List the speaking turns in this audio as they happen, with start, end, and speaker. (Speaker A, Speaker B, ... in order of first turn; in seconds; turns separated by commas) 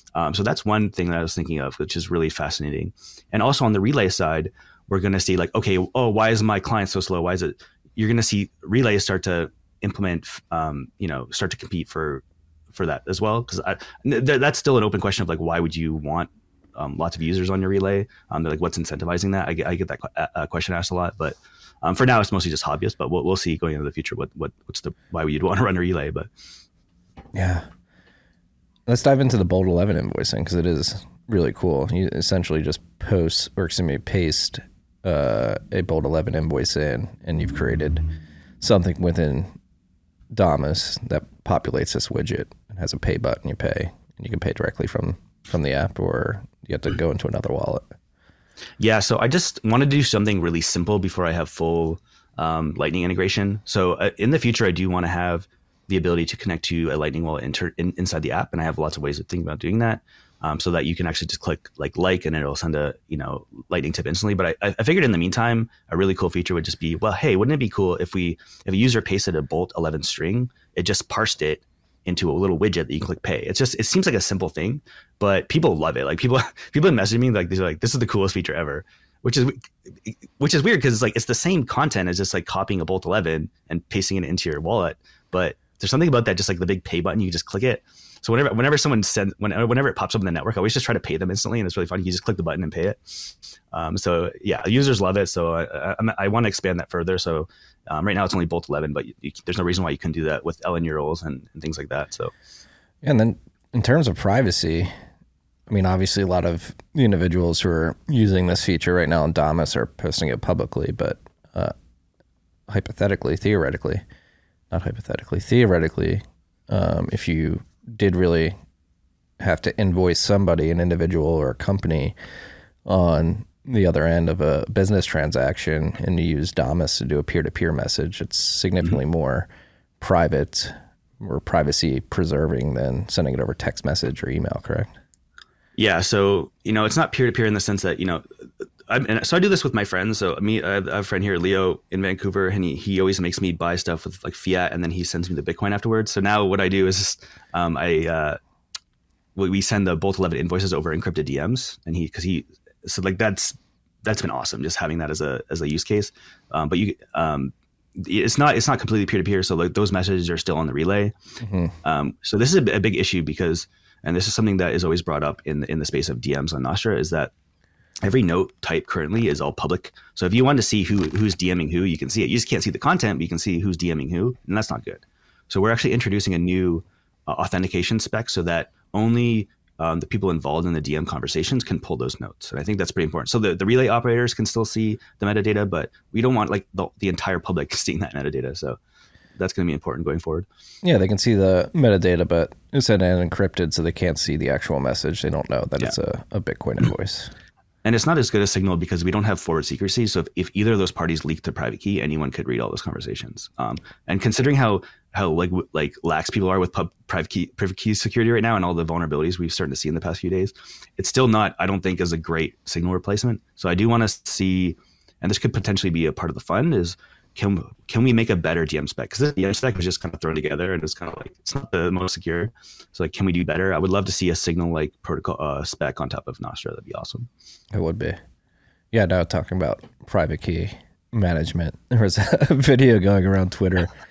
Speaker A: 0.1-26.3, Speaker B: 27.3-27.7, Speaker B: 28.9-38.0, Speaker B: 38.6-39.5, Speaker B: 40.3-47.9, Speaker A: 48.8-102.3, Speaker B: 103.0-104.9, Speaker B: 105.7-111.7, Speaker B: 112.7-114.0, Speaker B: 114.7-118.5, Speaker B: 119.4-122.1, Speaker B: 122.8-129.5, Speaker B: 130.0-134.9, Speaker A: 135.8-138.2, Speaker A: 138.9-148.4, Speaker A: 149.3-161.1, Speaker B: 161.4-161.7, Speaker A: 161.8-167.3, Speaker A: 168.0-188.8, Speaker A: 189.3-190.5, Speaker B: 190.8-197.3, Speaker A: 197.8-227.3, Speaker B: 227.7-228.2, Speaker B: 228.9-233.9